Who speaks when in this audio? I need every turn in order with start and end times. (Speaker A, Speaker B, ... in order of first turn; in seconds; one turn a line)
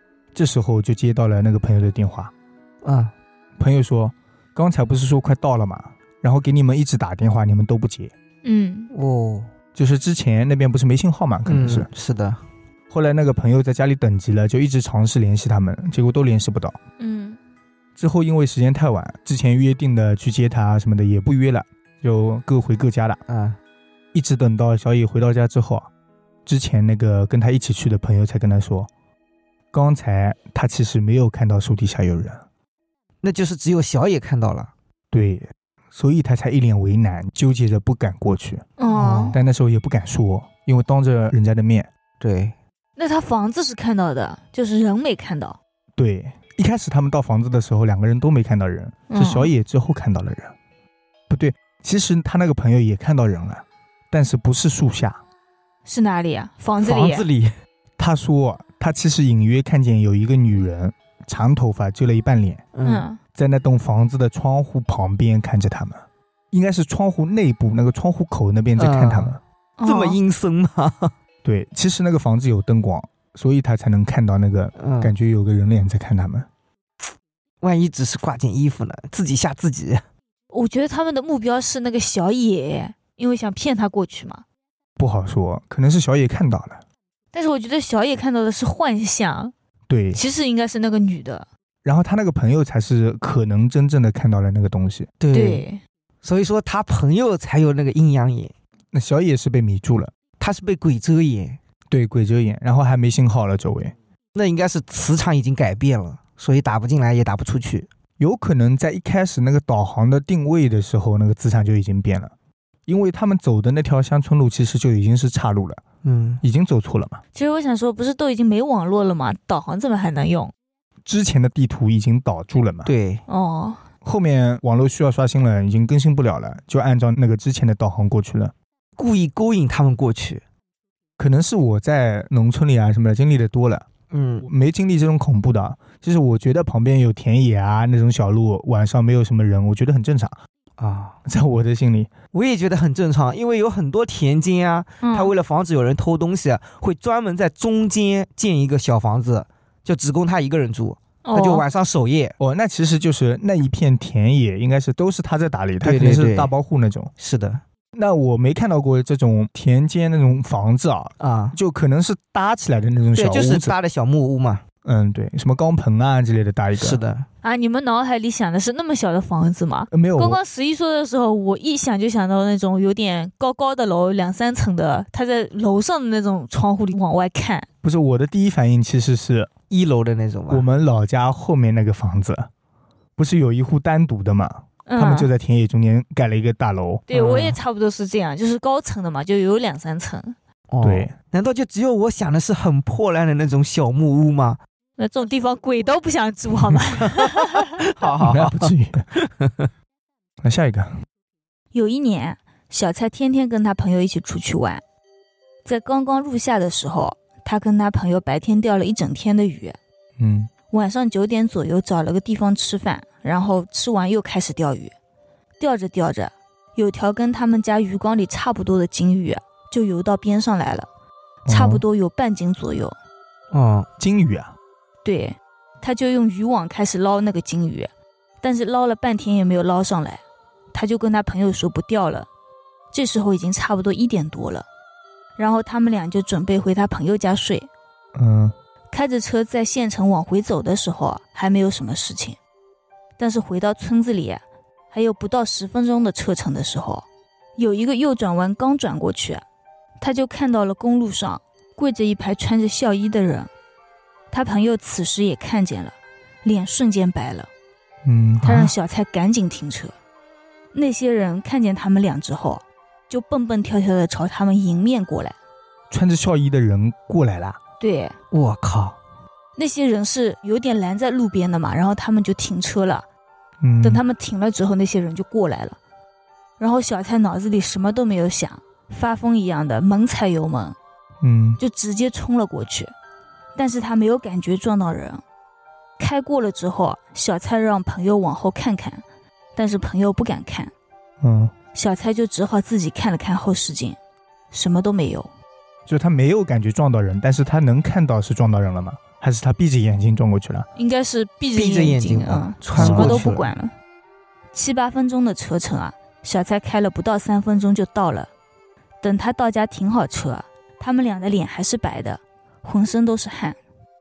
Speaker A: 0.3-2.3
Speaker B: 2.8-3.1
Speaker A: 3.6-8.1
Speaker C: 8.4-8.9
Speaker B: 8.9-9.5
Speaker A: 9.8-11.9
Speaker B: 11.5-12.4
Speaker A: 12.9-16.8
Speaker C: 17.0-17.4
Speaker A: 18.0-23.2
Speaker B: 23.3-23.6
Speaker A: 24.1-25.9
Speaker A: 26.5-28.9
Speaker A: 29.7-32.4
Speaker B: 33.2-34.7
Speaker A: 35.1-38.7
Speaker C: 38.8-39.4
Speaker B: 38.9-39.4
Speaker A: 39.3-41.9
Speaker B: 42.2-42.5
Speaker C: 43.0-45.6
Speaker A: 46.0-50.5
Speaker C: 49.1-49.5
Speaker A: 51.3-55.2
Speaker C: 55.9-57.3
Speaker B: 56.8-57.5
Speaker A: 58.0-62.6
Speaker B: 62.7-63.0
Speaker C: 62.8-63.2
Speaker A: 63.4-66.0
Speaker A: 66.5-69.4
Speaker B: 68.8-71.1
Speaker C: 69.8-70.2
Speaker A: 71.4-76.5
Speaker B: 74.8-75.1
Speaker B: 77.6-80.0
Speaker C: 80.5-84.4
Speaker A: 85.0-86.8
Speaker C: 87.3-89.5
Speaker A: 89.9-90.2
Speaker C: 90.1-91.5
Speaker A: 91.8-95.1
Speaker B: 95.2-95.7
Speaker C: 95.3-95.8
Speaker B: 96.2-98.5
Speaker A: 98.9-100.1
Speaker B: 100.4-101.6
Speaker A: 101.9-103.9
Speaker B: 104.3-107.9
Speaker A: 108.2-112.3
Speaker A: 112.9-115.8
Speaker B: 116.0-116.4
Speaker A: 116.4-117.2
Speaker C: 117.3-120.5
Speaker A: 121.0-122.9
Speaker B: 122.9-123.2
Speaker C: 123.3-123.8
Speaker A: 124.0-128.5
Speaker B: 129.0-130.4
Speaker A: 131.2-133.9
Speaker B: 134.1-134.5
Speaker A: 134.4-140.4
Speaker B: 140.8-141.2
Speaker A: 141.3-142.1
Speaker B: 142.3-152.4
Speaker C: 145.0-145.3
Speaker C: 151.2-151.7
Speaker A: 152.4-157.1
Speaker B: 155.8-156.5
Speaker B: 157.2-157.6
Speaker A: 157.9-163.8
Speaker B: 161.2-161.6
Speaker B: 163.2-164.6
Speaker A: 164.8-167.0
Speaker B: 166.8-167.3
Speaker C: 167.4-177.7
Speaker A: 169.9-170.4
Speaker A: 177.8-179.5
Speaker B: 179.7-180.7
Speaker A: 180.5-182.5
Speaker A: 183.2-187.1
Speaker C: 184.9-185.3
Speaker C: 187.1-190.3
Speaker B: 187.1-187.6
Speaker B: 190.7-194.6
Speaker A: 190.8-191.1
Speaker C: 195.0-197.8
Speaker B: 197.1-199.7
Speaker A: 198.2-199.1
Speaker A: 200.4-200.9
Speaker C: 201.7-204.8
Speaker C: 205.7-209.8
Speaker A: 210.2-210.5
Speaker C: 210.7-214.9
Speaker C: 215.6-220.9
Speaker A: 221.5-221.8
Speaker C: 221.5-222.9
Speaker B: 223.5-223.9
Speaker A: 224.0-224.6
Speaker C: 225.0-227.9
Speaker C: 228.4-230.2
Speaker C: 230.7-232.3
Speaker C: 232.9-234.7
Speaker C: 235.4-237.7
Speaker A: 238.2-238.5
Speaker C: 238.9-242.4
Speaker C: 243.2-247.1
Speaker C: 247.6-249.4
Speaker C: 250.0-253.5
Speaker C: 254.3-257.5
Speaker A: 258.1-258.7
Speaker C: 258.4-259.9
Speaker C: 260.7-265.4
Speaker A: 265.9-267.6
Speaker C: 267.8-268.2
Speaker B: 268.3-269.0
Speaker C: 269.6-273.1
Speaker A: 273.6-274.0
Speaker C: 273.8-275.8
Speaker C: 276.6-280.8
Speaker A: 281.2-281.6
Speaker C: 281.6-282.9
Speaker C: 283.6-285.2
Speaker C: 286.0-289.0
Speaker C: 289.6-290.7
Speaker A: 291.2-291.5
Speaker C: 291.7-294.0
Speaker C: 294.5-295.3
Speaker A: 295.9-300.7
Speaker C: 300.8-303.7
Speaker B: 301.5-303.4
Speaker A: 302.8-303.3
Speaker C: 304.5-308.3
Speaker C: 309.0-313.6